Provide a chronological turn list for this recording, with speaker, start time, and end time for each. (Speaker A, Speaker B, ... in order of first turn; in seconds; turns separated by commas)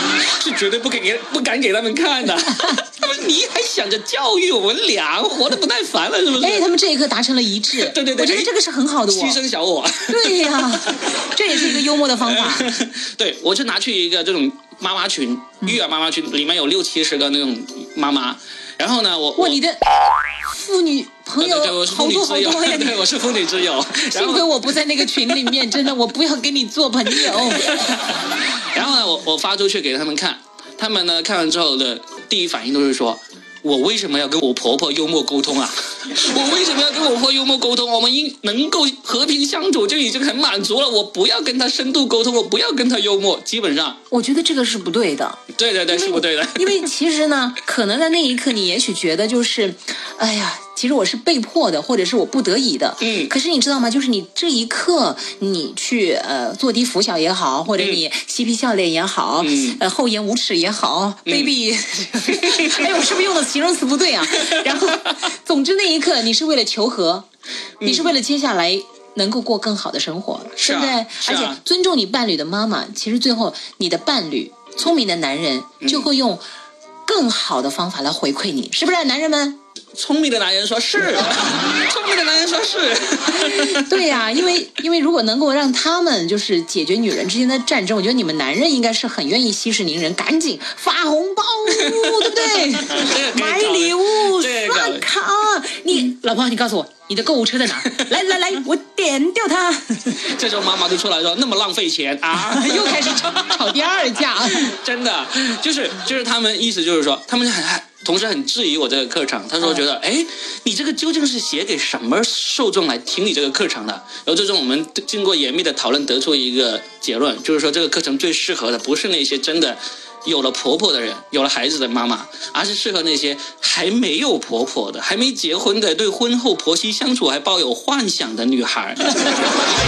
Speaker A: 0.2-6.7, Speaker B: 6.4-9.4, Speaker A: 7.7-8.5, Speaker A: 9.1-19.6, Speaker B: 10.1-12.7, Speaker B: 19.4-23.0, Speaker A: 21.4-25.7, Speaker B: 24.1-27.8, Speaker A: 27.1-44.0, Speaker B: 44.1-67.3, Speaker A: 45.5-46.9, Speaker A: 53.0-53.3, Speaker A: 57.8-58.0, Speaker A: 59.4-59.8, Speaker A: 61.3-61.5, Speaker A: 62.3-62.9, Speaker A: 64.4-64.8, Speaker A: 67.8-68.2, Speaker B: 67.8-76.4, Speaker A: 70.6-71.6, Speaker A: 75.8-76.1, Speaker B: 77.0-79.6, Speaker A: 80.0-84.2, Speaker B: 83.3-100.2, Speaker A: 91.7-95.0, Speaker A: 100.2-103.7, Speaker B: 102.3-104.7, Speaker A: 104.3-129.2